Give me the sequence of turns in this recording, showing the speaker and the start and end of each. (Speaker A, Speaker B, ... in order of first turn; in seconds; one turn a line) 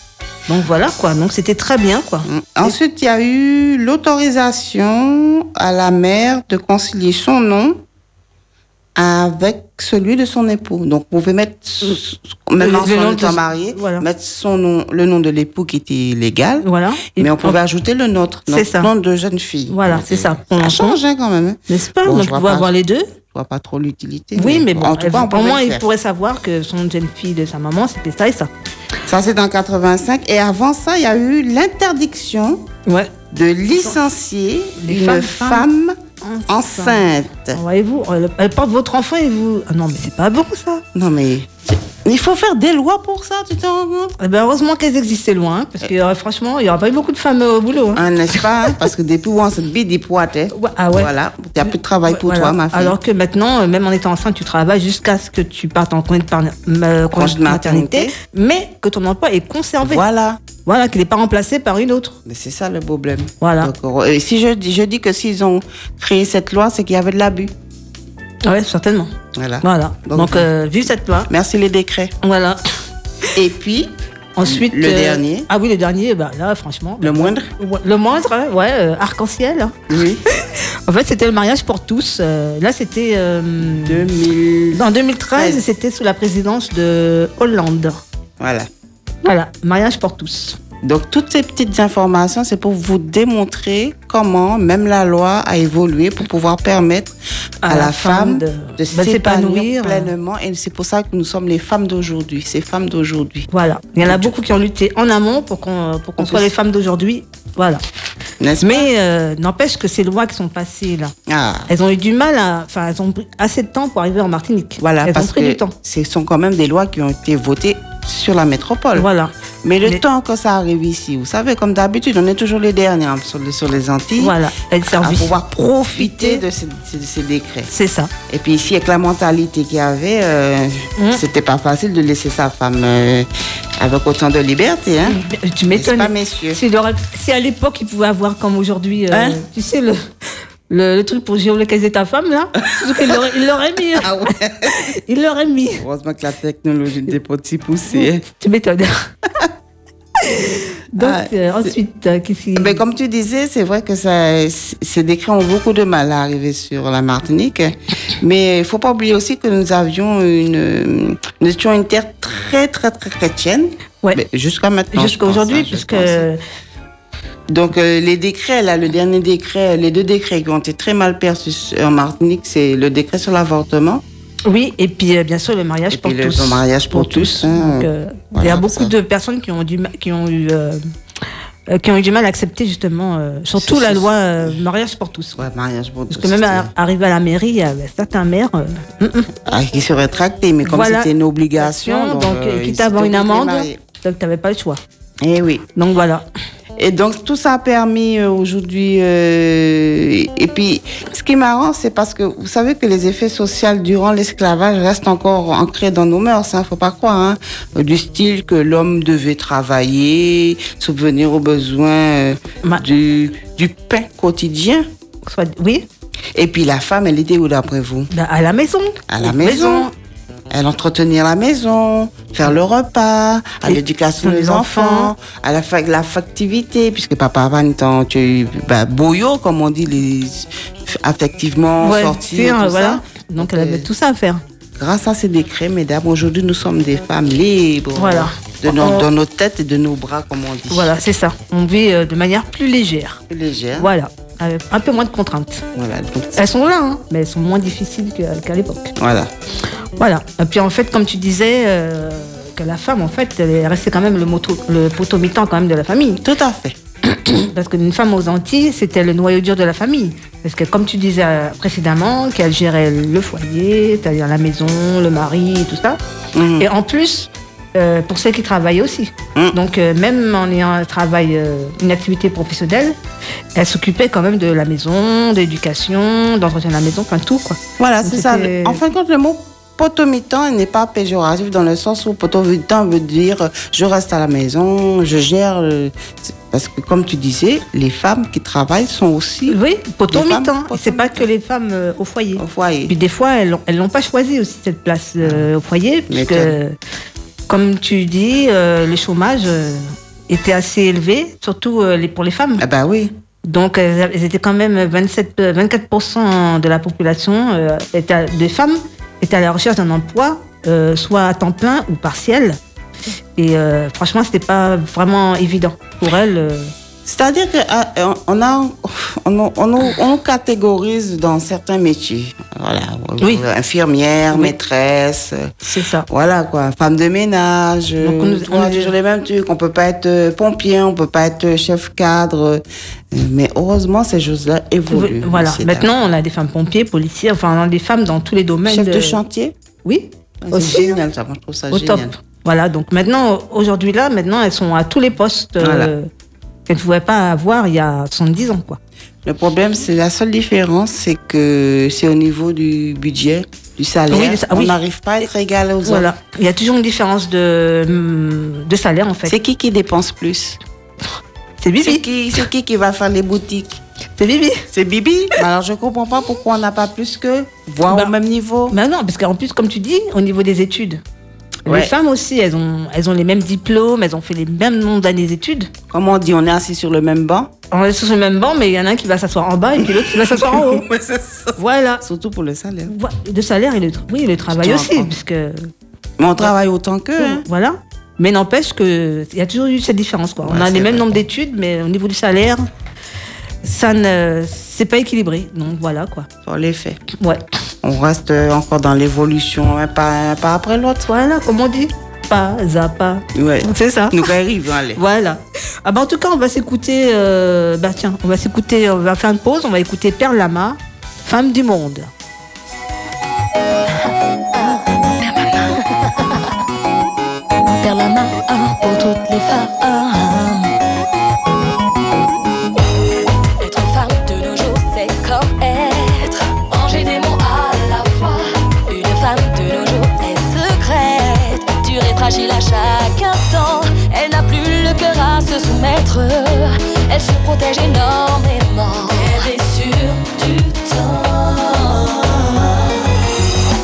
Speaker A: 0.5-2.7
Speaker B: 2.2-7.8
Speaker B: 8.9-22.7
Speaker A: 12.6-14.0
Speaker A: 16.6-17.6
Speaker A: 18.5-18.9
Speaker A: 19.7-21.0
Speaker A: 21.7-23.1
Speaker B: 23.3-25.8
Speaker A: 24.4-28.5
Speaker B: 29.1-32.7
Speaker A: 32.9-33.1
Speaker B: 33.3-36.0
Speaker A: 34.8-35.7
Speaker A: 36.2-37.0
Speaker B: 36.5-37.6
Speaker A: 37.5-40.8
Speaker B: 40.9-44.2
Speaker A: 44.2-48.0
Speaker B: 47.9-53.0
Speaker A: 50.5-51.1
Speaker A: 52.1-60.0
Speaker B: 57.1-58.1
Speaker B: 59.8-60.4
Speaker A: 60.6-62.1
Speaker B: 62.2-67.5
Speaker A: 63.4-63.7
Speaker A: 68.4-71.3
Speaker B: 69.3-70.5
Speaker B: 71.3-72.1
Speaker A: 72.2-72.6
Speaker B: 73.3-75.5
Speaker A: 74.3-84.1
Speaker B: 77.0-77.5
Speaker B: 79.9-80.2
Speaker B: 83.6-85.6
Speaker A: 84.7-88.0
Speaker B: 88.4-88.7
Speaker A: 89.2-90.6
Speaker B: 90.8-97.1
Speaker A: 97.6-100.1
Speaker B: 97.7-103.5
Speaker A: 103.5-107.8
Speaker B: 104.0-104.3
Speaker B: 106.2-106.5
Speaker B: 108.4-108.9
Speaker A: 108.6-111.1
Speaker B: 111.3-111.7
Speaker A: 111.7-115.7
Speaker B: 114.8-119.1
Speaker A: 118.9-119.3
Speaker B: 119.6-124.4
Speaker A: 124.2-126.4
Speaker B: 124.9-127.7
Speaker A: 127.7-128.1
Speaker B: 128.3-135.2
Speaker A: 131.0-131.2
Speaker A: 135.0-140.0
Speaker B: 135.7-136.6
Speaker B: 139.1-139.4
Speaker A: 140.7-145.8
Speaker B: 142.7-143.2
Speaker B: 143.8-144.9
Speaker B: 145.8-148.2
Speaker A: 148.2-149.1
Speaker A: 150.2-152.8
Speaker B: 151.0-151.7
Speaker B: 152.5-166.3
Speaker A: 164.9-166.4
Speaker B: 167.5-174.0
Speaker A: 174.5-180.8
Speaker B: 175.9-178.9
Speaker A: 181.7-185.4
Speaker B: 183.6-184.5
Speaker B: 185.3-186.7
Speaker A: 186.1-189.3
Speaker B: 189.4-193.8
Speaker A: 190.6-194.8
Speaker B: 195.2-195.7
Speaker A: 195.8-196.2
Speaker B: 196.8-214.9
Speaker A: 215.2-215.9
Speaker B: 216.3-218.1
Speaker A: 218.1-219.9
Speaker B: 219.1-219.9
Speaker B: 220.5-233.9
Speaker A: 223.7-225.1
Speaker A: 231.8-234.4
Speaker B: 234.8-240.9
Speaker A: 237.9-239.1
Speaker A: 240.7-243.2
Speaker B: 243.3-243.9
Speaker A: 243.8-245.6
Speaker B: 245.7-246.4
Speaker A: 246.3-248.9
Speaker B: 249.0-249.3
Speaker A: 250.0-256.2
Speaker B: 256.2-256.8
Speaker A: 257.1-266.0
Speaker B: 266.3-266.7
Speaker A: 266.6-273.0
Speaker A: 273.5-278.8
Speaker B: 277.8-291.3
Speaker A: 289.5-296.7
Speaker B: 292.4-292.9
Speaker B: 296.1-296.6
Speaker A: 297.5-302.6
Speaker B: 302.6-303.1
Speaker A: 303.4-312.6
Speaker A: 313.4-316.7
Speaker B: 317.0-325.5
Speaker A: 325.6-326.1
Speaker B: 326.1-335.9
Speaker A: 328.0-328.9
Speaker A: 334.9-339.2
Speaker B: 338.6-339.5
Speaker A: 339.8-341.0
Speaker B: 340.4-342.1
Speaker A: 341.7-346.1
Speaker B: 345.6-345.9
Speaker A: 346.7-348.8
Speaker B: 349.2-356.1
Speaker A: 354.1-354.7
Speaker A: 355.8-359.3
Speaker B: 359.2-360.6
Speaker A: 361.6-362.0
Speaker B: 361.8-363.8
Speaker A: 364.2-364.6
Speaker B: 364.7-368.7
Speaker A: 368.7-371.0
Speaker A: 371.6-375.7
Speaker B: 371.7-371.9
Speaker B: 375.9-377.5
Speaker A: 377.7-380.9
Speaker B: 379.8-382.9
Speaker A: 381.6-382.0
Speaker A: 382.9-385.7
Speaker B: 384.5-385.1
Speaker B: 386.2-387.4
Speaker A: 387.2-392.6
Speaker B: 390.4-391.2
Speaker A: 393.6-396.3
Speaker B: 396.4-397.0
Speaker A: 397.2-397.4
Speaker B: 397.8-401.1
Speaker A: 401.1-404.3
Speaker B: 403.3-405.0
Speaker A: 404.9-412.1
Speaker C: 414.5-416.4
Speaker C: 417.7-420.7
Speaker C: 423.6-443.1